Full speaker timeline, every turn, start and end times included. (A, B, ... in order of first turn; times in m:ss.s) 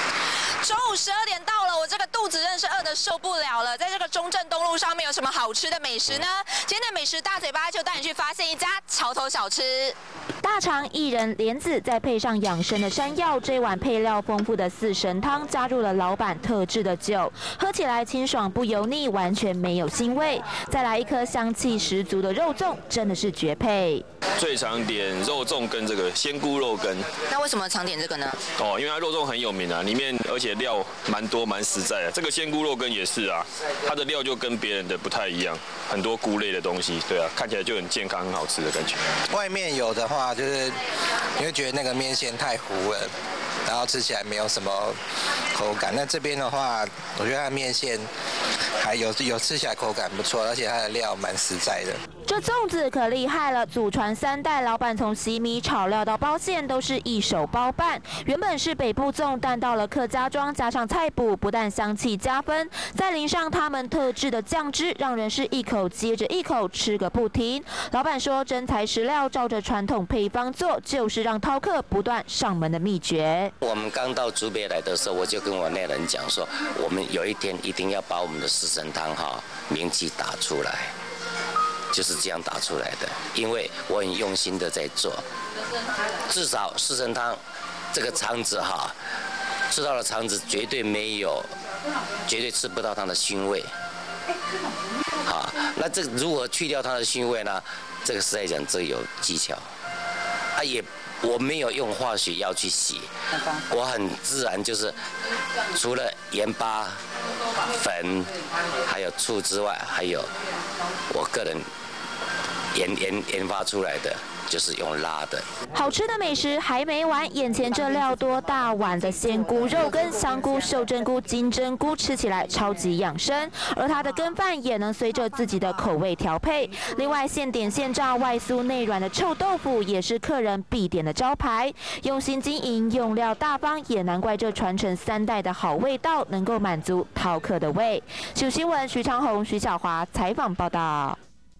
0:00.6-0:10.0 A
0:10.4-0:24.0 B
0:24.4-0:27.1 C
0:27.3-0:28.4 A
0:28.6-0:39.1 C
0:39.3-0:40.8 D
0:41.4-0:43.1 D
0:43.7-0:45.0 D
0:45.5-0:48.1 D
0:48.8-0:52.0 D
0:52.3-1:13.5 B
1:13.6-1:20.9 E
1:21.9-1:25.2 E
1:26.3-1:27.4 E
1:27.9-1:29.0 E
1:29.7-1:31.5 E
1:32.3-1:33.7 E
1:35.2-1:39.6 E
1:40.6-1:43.1 E
1:43.7-1:45.0 E
1:45.7-1:47.0 E
1:47.7-1:48.3 E
1:48.9-1:50.3 E
1:51.1-1:51.7 E
1:52.7-1:55.5 E
1:55.7-2:21.2 B